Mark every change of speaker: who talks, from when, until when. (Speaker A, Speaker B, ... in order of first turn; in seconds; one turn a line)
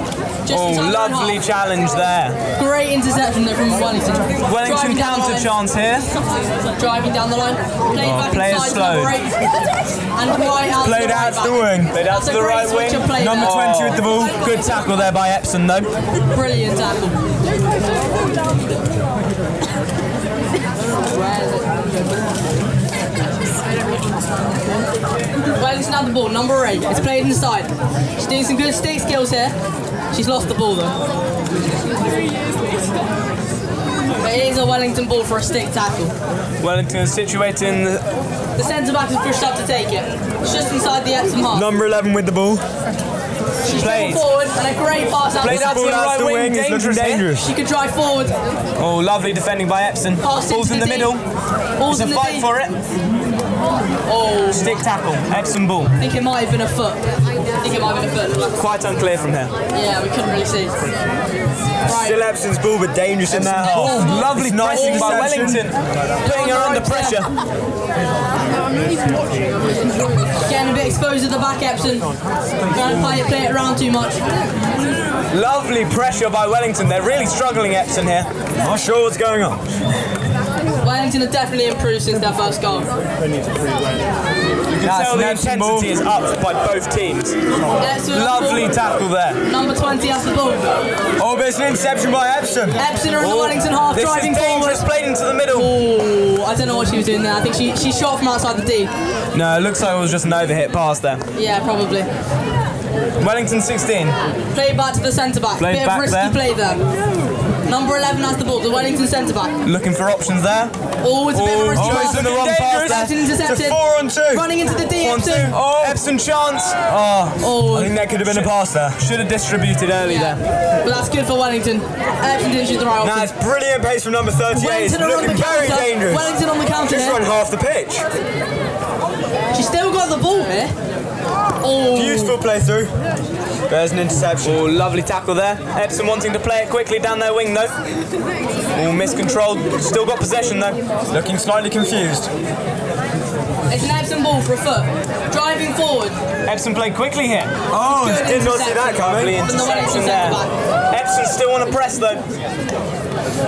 Speaker A: 0.5-1.4
Speaker B: 0.5-2.4
Speaker A: 2.6-5.5
Speaker B: 4.5-6.1
Speaker A: 6.8-9.3
Speaker B: 8.0-9.2
Speaker A: 10.2-13.6
Speaker C: 10.8-11.9
Speaker B: 11.9-15.9
Speaker C: 13.2-14.4
Speaker A: 16.3-17.2
Speaker A: 25.6-29.6
Speaker A: 30.1-31.0
Speaker A: 34.2-36.1
Speaker B: 36.6-38.0
Speaker A: 38.6-41.7
Speaker C: 41.5-42.6
Speaker A: 43.6-45.7
Speaker B: 43.7-44.3
Speaker B: 45.4-47.3
Speaker C: 45.4-47.5
Speaker A: 47.4-48.3
Speaker B: 48.8-51.2
Speaker A: 50.2-51.2
Speaker A: 51.8-52.5
Speaker B: 51.9-52.8
Speaker A: 54.1-54.6
Speaker B: 54.5-55.9
Speaker A: 56.0-57.0
Speaker A: 57.6-58.5
Speaker B: 58.6-59.5
Speaker A: 59.7-60.8
Speaker A: 61.9-62.2
Speaker C: 61.9-65.7
Speaker B: 63.3-67.3
Speaker A: 63.6-65.3
Speaker A: 66.2-67.3
Speaker A: 70.5-72.1
Speaker A: 72.7-74.2
Speaker B: 75.3-78.3
Speaker C: 78.6-79.6
Speaker A: 80.8-82.9
Speaker B: 84.7-87.4
Speaker C: 84.8-85.9
Speaker A: 87.8-88.7
Speaker B: 88.1-89.4
Speaker A: 89.5-90.7
Speaker C: 91.2-92.8
Speaker A: 92.8-94.9
Speaker B: 93.2-95.7
Speaker A: 95.5-98.9
Speaker B: 99.3-101.2
Speaker A: 101.3-102.1
Speaker B: 103.2-104.2
Speaker A: 104.5-106.8
Speaker B: 105.6-106.4
Speaker A: 107.7-109.5
Speaker B: 109.6-110.7
Speaker A: 111.0-115.5
Speaker B: 111.3-113.1
Speaker C: 111.7-114.5
Speaker B: 115.0-117.3
Speaker C: 115.5-116.0
Speaker C: 116.9-119.0
Speaker A: 117.4-118.0
Speaker B: 118.1-120.4
Speaker A: 120.1-123.3
Speaker C: 123.0-128.1
Speaker A: 124.5-127.2
Speaker A: 129.5-130.7
Speaker A: 131.6-132.4
Speaker C: 131.9-132.9
Speaker C: 133.7-134.7
Speaker B: 134.4-137.7
Speaker B: 138.8-140.8
Speaker C: 141.1-142.3
Speaker A: 143.7-146.2
Speaker B: 146.5-147.5
Speaker C: 147.7-149.4
Speaker A: 147.8-150.5
Speaker B: 149.0-152.2